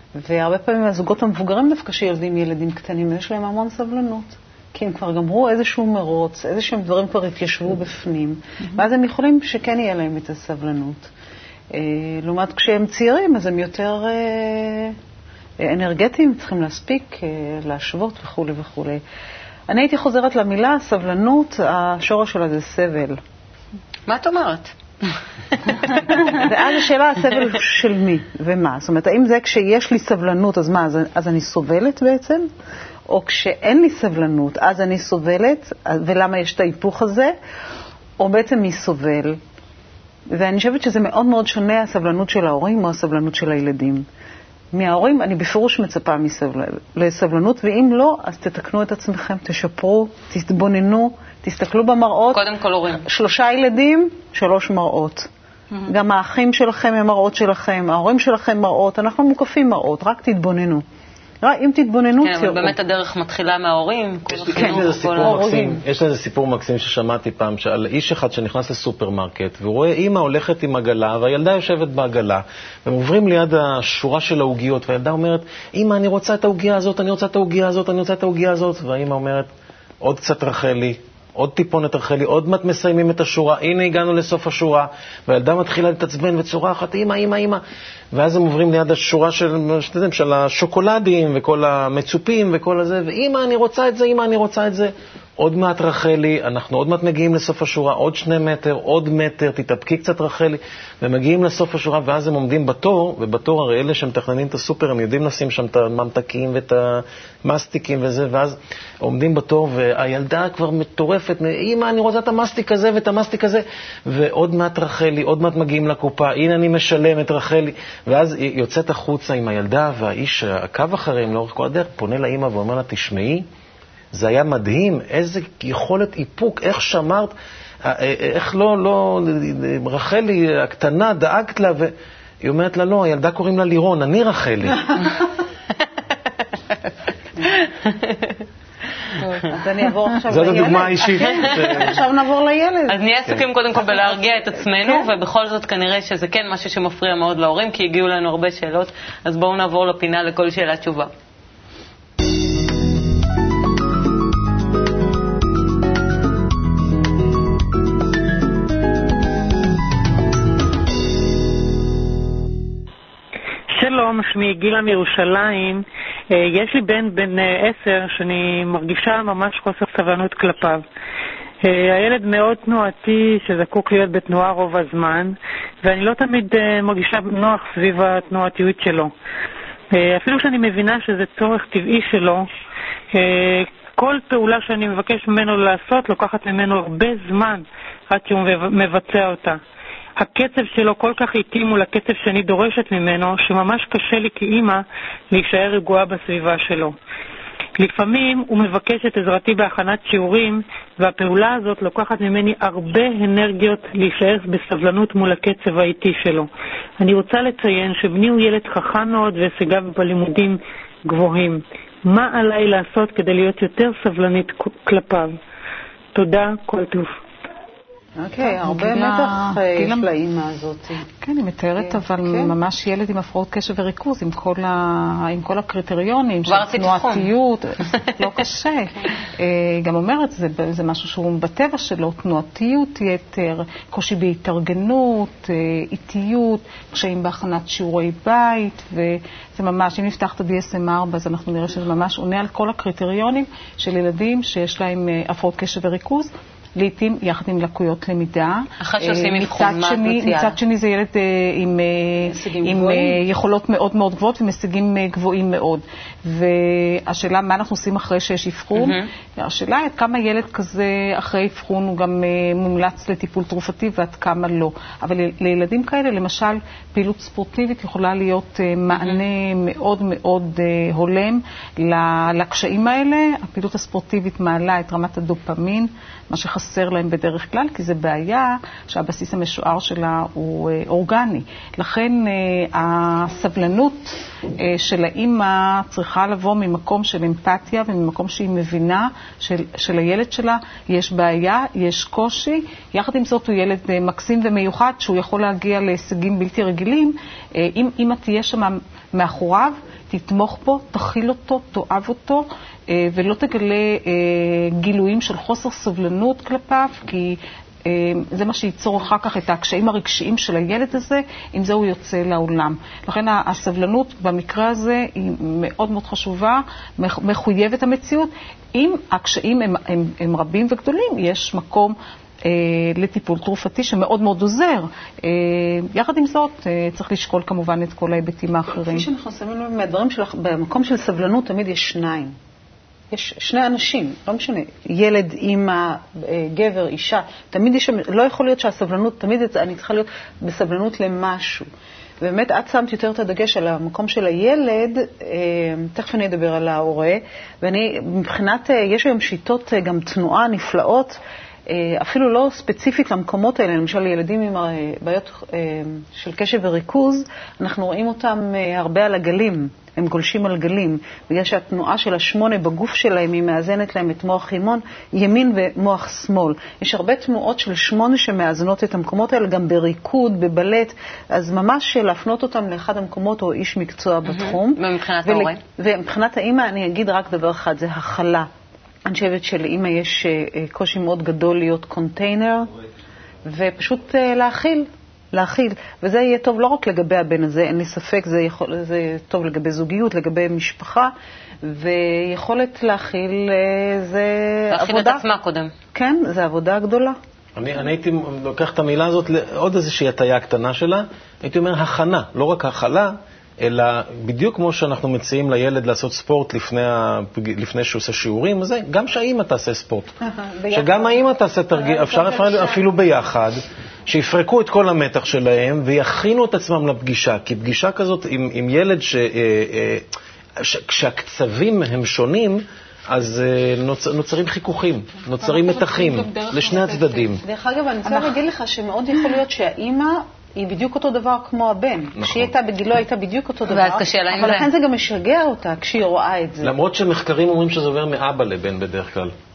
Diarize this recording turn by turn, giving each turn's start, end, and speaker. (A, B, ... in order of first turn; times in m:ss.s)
0:00.2-0:11.1 A
0:11.7-0:14.9 A
0:15.6-0:19.0 A
0:19.7-0:23.2 A
0:24.1-0:24.7 B
0:25.6-0:26.5 B
0:26.0-0:32.5 A
0:33.1-0:37.3 A
0:38.2-0:39.4 A
0:40.3-0:44.0 A
0:44.7-0:52.4 A
0:52.3-0:53.0 B
0:53.0-0:55.3 A
0:55.9-1:00.8 A
1:01.4-1:02.8 A
1:02.2-1:05.4 B
1:04.3-1:19.5 C
1:04.5-1:05.8 A
1:20.0-1:27.6 C
1:28.1-2:03.4 C
2:04.1-2:07.3 C
2:07.8-2:14.9 C
2:17.9-2:18.4 B
2:19.5-2:23.0 A
2:20.3-2:22.0 C
2:21.2-2:21.9 B
2:22.9-2:31.1 B
2:23.9-2:25.1 A
2:43.7-2:50.8 D
2:51.6-2:59.1 D
2:59.9-3:02.4 D
3:03.1-3:09.6 D
3:10.2-3:16.9 D
3:17.8-3:26.5 D
3:27.0-3:35.3 D
3:36.1-3:37.1 D
3:38.2-3:41.0 A
3:38.4-3:40.1 E
3:41.2-5:21.9 E
3:41.8-3:42.5 A
3:46.5-3:47.3 B
4:08.8-4:10.6 B
4:12.2-4:13.2 A
4:18.7-4:19.1 B
4:29.0-4:29.2 B
5:22.4-5:29.1 E
5:28.7-5:32.3 A
5:33.1-5:41.7 A
5:42.2-5:51.2 A
5:51.7-6:18.5 A
6:14.2-6:15.6 B
6:19.0-6:22.7 A
6:23.4-6:31.1 A
6:31.6-6:35.2 A
6:34.7-6:35.7 B
6:35.9-6:37.1 A
6:37.6-6:50.1 C
6:50.2-6:51.2 A
6:50.7-7:07.4 C
6:51.7-6:52.8 A
7:05.4-7:07.4 E
7:07.4-7:16.7 A
7:08.0-7:08.4 E
7:12.2-7:12.5 C
7:13.7-7:14.7 B
7:16.6-7:19.3 C